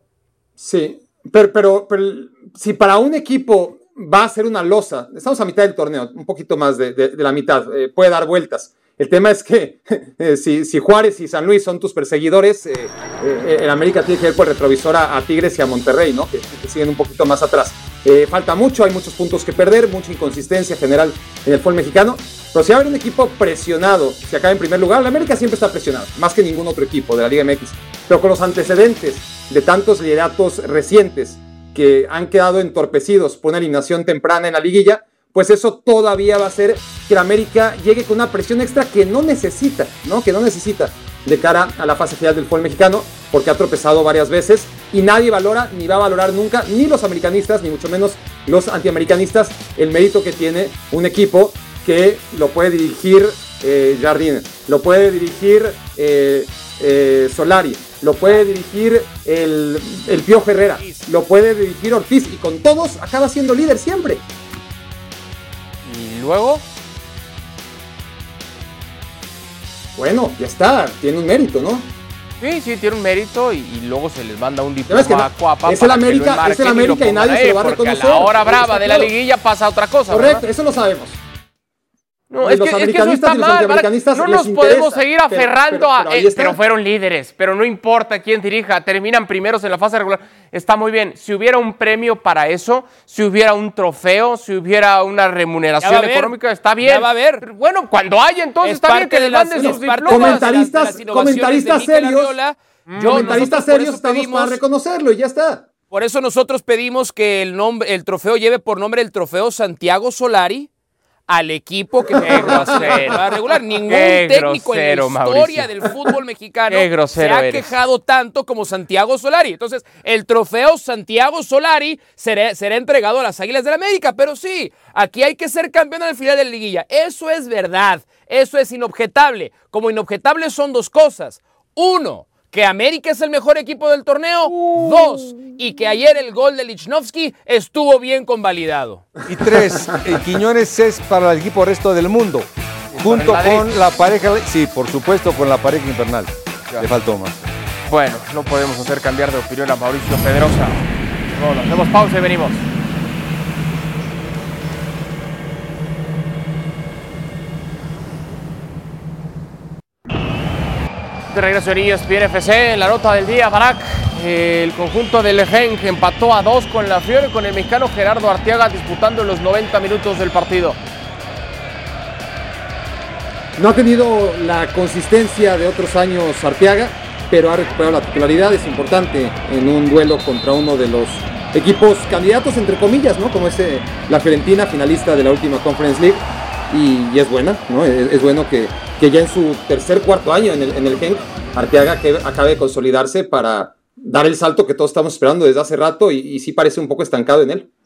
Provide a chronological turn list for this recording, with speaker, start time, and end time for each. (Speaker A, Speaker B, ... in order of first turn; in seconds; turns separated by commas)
Speaker A: 0.6-64.2, Speaker B: 60.8-61.1, Speaker C: 65.8-66.6, Speaker A: 70.0-71.9, Speaker C: 72.4-80.4, Speaker A: 74.9-79.1, Speaker A: 80.1-81.2, Speaker C: 82.3-100.5, Speaker A: 82.4-86.6, Speaker B: 95.8-97.5, Speaker B: 98.6-104.6, Speaker A: 99.6-102.3, Speaker C: 102.9-103.5, Speaker A: 103.0-105.7, Speaker B: 105.9-110.7, Speaker B: 111.3-139.1, Speaker C: 112.2-115.7, Speaker A: 112.2-113.0, Speaker C: 116.7-117.7, Speaker C: 134.6-135.2, Speaker D: 139.3-147.5, Speaker C: 142.9-143.7, Speaker C: 147.9-152.7, Speaker C: 161.3-170.8, Speaker A: 173.6-197.7